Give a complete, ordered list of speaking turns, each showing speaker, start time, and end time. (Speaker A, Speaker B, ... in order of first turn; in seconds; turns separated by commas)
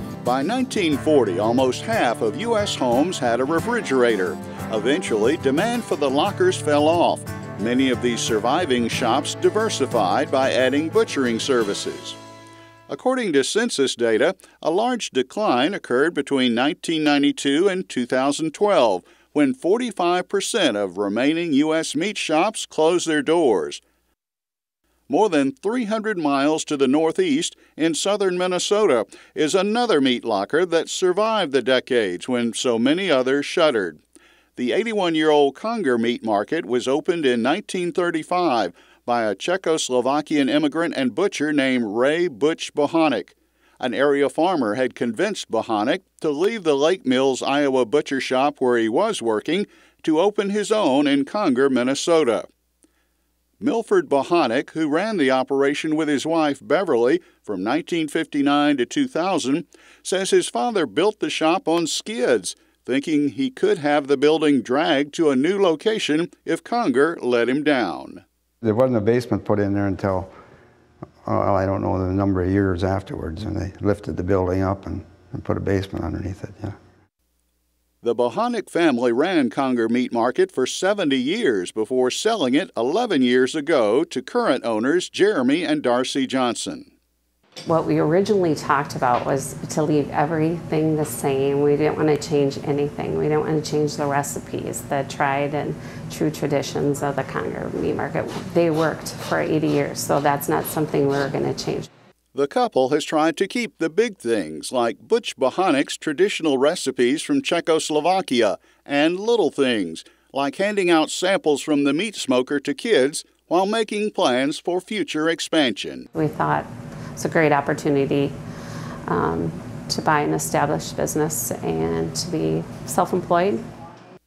Speaker A: 0.2-12.2, Speaker A: 12.9-23.8, Speaker A: 25.1-34.0, Speaker A: 34.5-52.5, Speaker A: 53.6-68.2, Speaker B: 68.6-70.3, Speaker B: 71.2-76.8, Speaker A: 78.0-86.9, Speaker C: 87.7-101.9, Speaker A: 102.3-116.1, Speaker C: 116.1-118.3, Speaker C: 119.1-123.6